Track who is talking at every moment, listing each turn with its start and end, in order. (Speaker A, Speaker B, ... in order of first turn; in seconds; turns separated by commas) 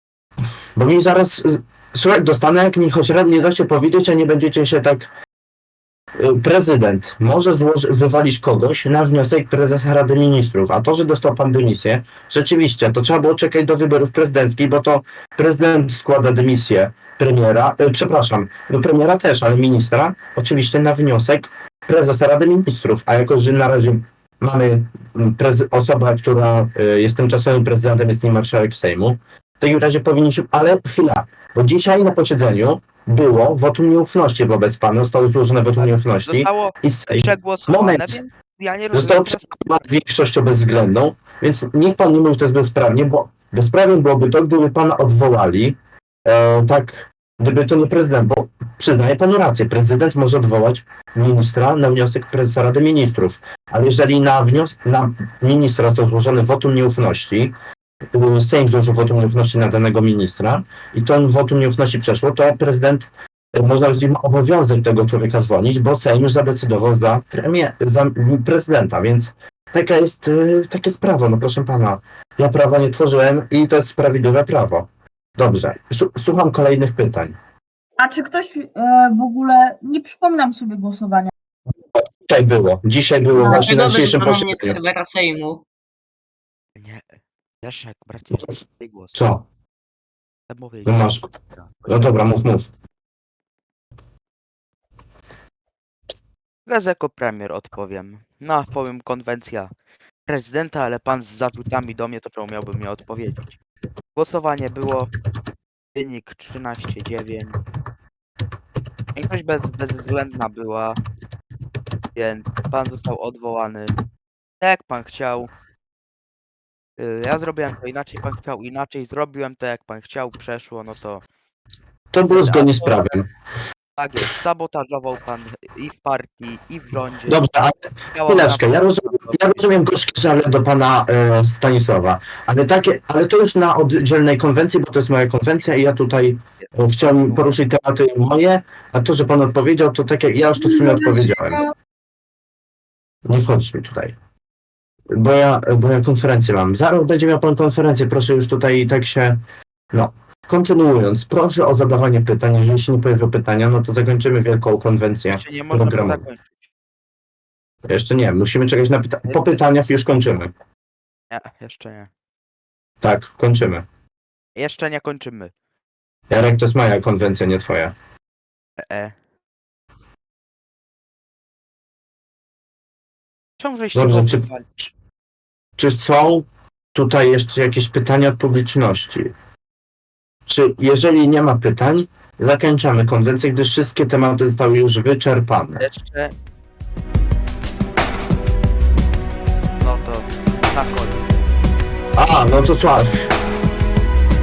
Speaker A: 0.8-5.1, Speaker A: 6.2-38.2, Speaker B: 35.8-39.6, Speaker A: 38.9-57.5, Speaker A: 58.1-77.4, Speaker C: 78.0-81.3, Speaker A: 82.0-84.8, Speaker D: 83.4-85.6, Speaker B: 86.8-89.2, Speaker A: 89.1-89.5, Speaker B: 90.5-91.7, Speaker A: 90.9-91.3, Speaker A: 91.8-92.7, Speaker B: 96.7-99.7, Speaker B: 100.3-103.5, Speaker B: 104.1-105.1, Speaker B: 105.9-107.6, Speaker B: 109.1-111.0, Speaker B: 112.1-114.0, Speaker B: 114.6-115.5, Speaker B: 117.0-121.3, Speaker A: 122.1-123.3, Speaker B: 122.2-122.9, Speaker B: 124.0-127.5, Speaker A: 127.3-141.6, Speaker B: 128.1-129.4, Speaker B: 136.6-137.6, Speaker C: 140.6-141.7, Speaker A: 143.2-144.1, Speaker A: 145.1-149.4, Speaker A: 149.9-156.2, Speaker B: 155.3-156.7, Speaker A: 157.9-160.5, Speaker B: 161.3-162.1, Speaker A: 163.0-163.9, Speaker B: 164.6-165.5, Speaker A: 166.3-168.0, Speaker B: 168.8-169.1, Speaker B: 173.6-174.7, Speaker A: 173.9-174.9, Speaker A: 175.8-179.3, Speaker A: 180.5-185.9, Speaker B: 185.8-186.3, Speaker B: 189.8-191.3, Speaker A: 192.2-193.3